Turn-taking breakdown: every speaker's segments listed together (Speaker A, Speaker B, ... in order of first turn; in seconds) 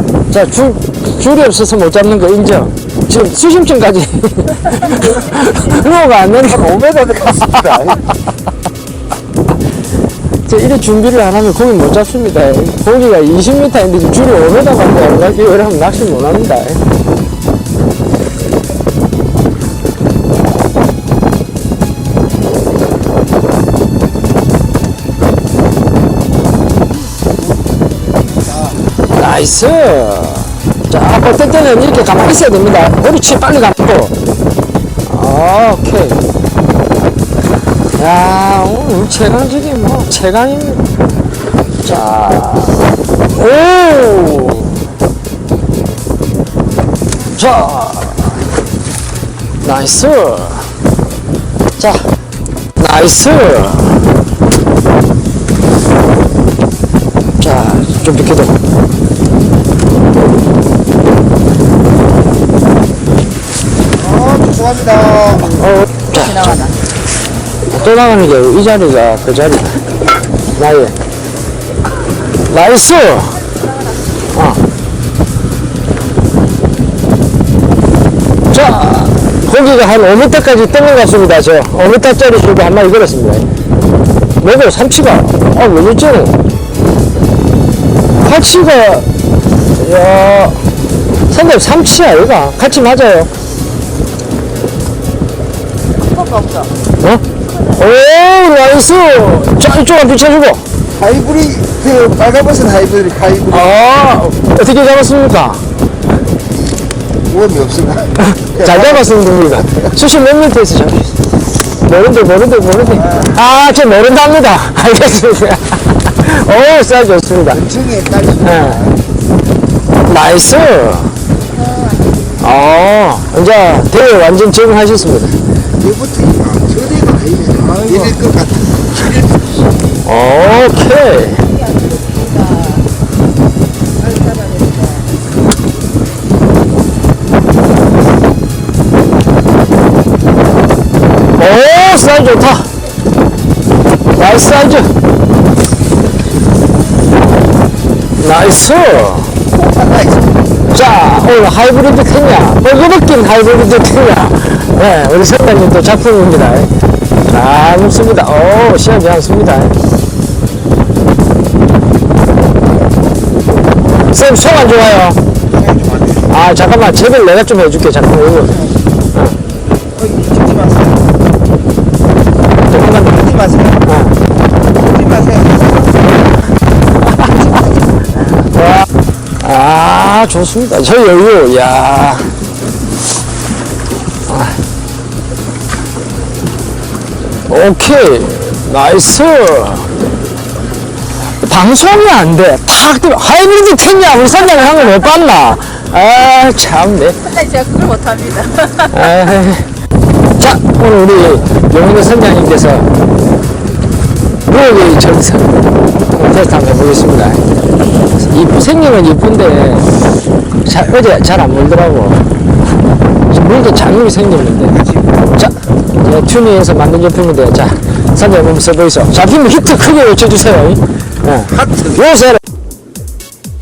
Speaker A: 0.3-8.0, 10.5-16.8, 29.1-34.1, 35.0-36.2, 38.0-40.8, 41.8-44.8, 47.3-48.5, 49.6-50.8, 51.8-52.1, 52.8-54.1, 57.4-58.6, 65.5-66.7, 67.7-69.8, 70.6-71.0, 72.4-73.5, 74.3-74.6, 78.5-83.5, 84.4-86.4, 88.2-89.1, 89.8-90.6, 91.3-93.3, 97.0-100.6, 103.4-105.7, 108.2-111.2, 111.7-117.8, 118.4-118.9, 120.0-121.2, 122.4-125.4, 130.0-131.5, 141.3-142.7, 144.1-144.9, 148.2-149.4, 150.7-156.7, 157.3-159.8, 164.1-165.2, 166.3-168.6, 169.1-169.4, 172.7-174.2, 178.5-178.8, 179.4-182.3, 184.3-184.6, 187.5-189.9, 191.3-197.3, 198.9-199.7, 200.4-202.9, 204.5-207.4, 208.2-209.9, 210.6-212.2, 213.3-222.4
Speaker B: 64.0-65.7, 101.0-103.4, 107.3-108.1, 117.8-118.7, 125.8-129.3, 149.8-150.2, 165.6-166.1, 170.0-170.9, 175.0-175.8
Speaker C: 66.2-66.7, 73.7-74.0, 96.1-96.7, 121.5-122.4, 131.4-132.9, 134.0-135.1, 197.2-199.0